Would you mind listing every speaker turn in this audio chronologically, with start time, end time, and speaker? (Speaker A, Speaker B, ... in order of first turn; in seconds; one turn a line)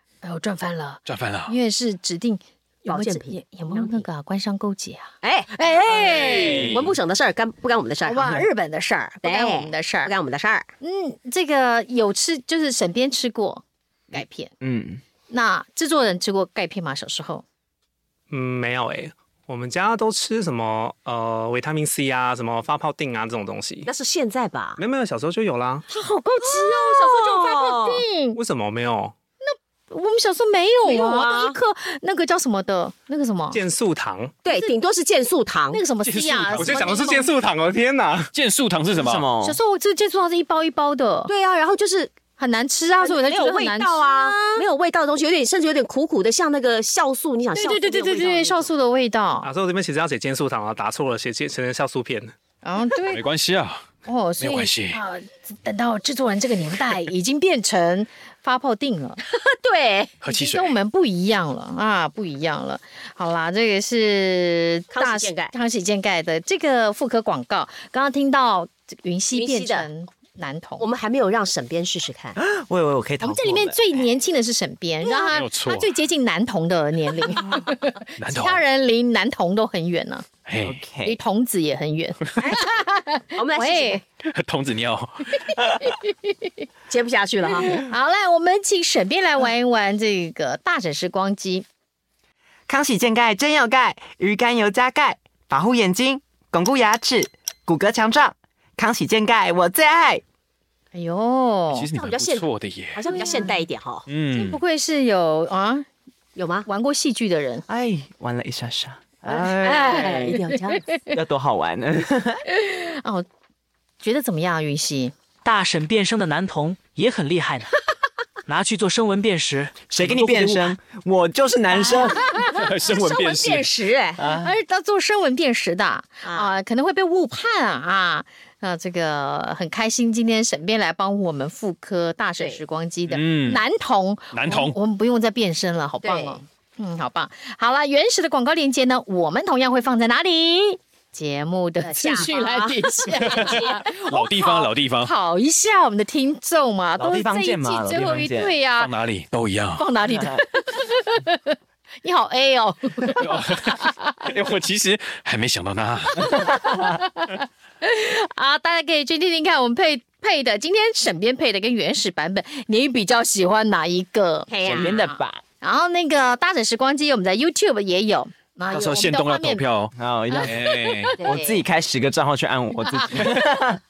Speaker A: 0.2-5.1
Speaker B: 1.1-1.6
Speaker C: 2.9-4.1
Speaker C: 5.2-8.4
Speaker A: 5.9-6.6
Speaker B: 6.0-6.9
Speaker A: 8.1-10.1
Speaker C: 9.2-10.7
Speaker A: 10.8-14.5
Speaker D: 14.6-15.0
Speaker A: 15.3-17.4
Speaker E: 18.3-23.9
Speaker C: 23.9-24.8
Speaker E: 24.8-25.9
Speaker A: 25.9-28.4
Speaker C: 26.4-28.0
Speaker E: 28.4-29.1
Speaker A: 29.4-33.6
Speaker C: 30.8-31.6
Speaker E: 33.5-34.4
Speaker C: 34.4-35.8
Speaker A: 34.5-34.8
Speaker A: 35.7-37.3
Speaker B: 36.0-36.9
Speaker E: 36.5-38.3
Speaker B: 38.3-39.2
Speaker D: 39.0-39.6
Speaker A: 39.4-41.3
Speaker C: 41.3-42.1
Speaker A: 42.4-44.7
Speaker C: 43.0-48.7
Speaker A: 47.5-49.5
Speaker E: 49.4-52.3
Speaker A: 52.6-53.2
Speaker B: 53.1-55.0
Speaker A: 54.0-59.2
Speaker C: 59.3-60.1
Speaker B: 60.2-60.8
Speaker A: 60.3-70.9
Speaker C: 64.9-65.5
Speaker C: 69.3-69.9
Speaker C: 70.8-72.4
Speaker D: 72.4-73.8
Speaker A: 73.2-80.3
Speaker B: 75.1-75.9
Speaker B: 78.2-78.6
Speaker B: 80.5-80.8
Speaker D: 80.6-81.2
Speaker A: 81.0-84.0
Speaker C: 82.4-82.7
Speaker C: 83.3-84.0
Speaker B: 84.2-85.6
Speaker C: 86.9-87.8
Speaker A: 87.8-91.7
Speaker D: 92.7-100.2
Speaker A: 100.9-101.9
Speaker B: 101.7-103.0
Speaker C: 102.0-104.1
Speaker A: 103.1-103.5
Speaker B: 104.1-104.6
Speaker A: 104.3-105.9
Speaker C: 106.4-106.7
Speaker A: 106.7-107.7
Speaker D: 107.7-110.4
Speaker C: 109.3-110.8
Speaker D: 111.1-112.4
Speaker A: 112.5-113.3
Speaker A: 114.0-115.1
Speaker F: 115.4-117.8
Speaker F: 118.5-120.8
Speaker D: 119.9-122.3
Speaker B: 122.5-123.7
Speaker C: 122.5-124.2
Speaker D: 124.2-124.5
Speaker A: 124.4-148.9
Speaker C: 126.2-126.5
Speaker B: 133.1-133.6
Speaker B: 134.3-134.8
Speaker C: 136.0-136.4
Speaker C: 141.8-143.8
Speaker B: 143.2-145.1
Speaker D: 147.0-148.6
Speaker B: 148.7-149.8
Speaker A: 149.8-154.1
Speaker B: 153.1-156.8
Speaker A: 156.3-169.7
Speaker C: 164.5-165.0
Speaker D: 164.7-165.4
Speaker B: 168.7-171.2
Speaker D: 169.9-170.5
Speaker A: 170.3-171.6
Speaker D: 171.2-173.8
Speaker A: 172.9-173.4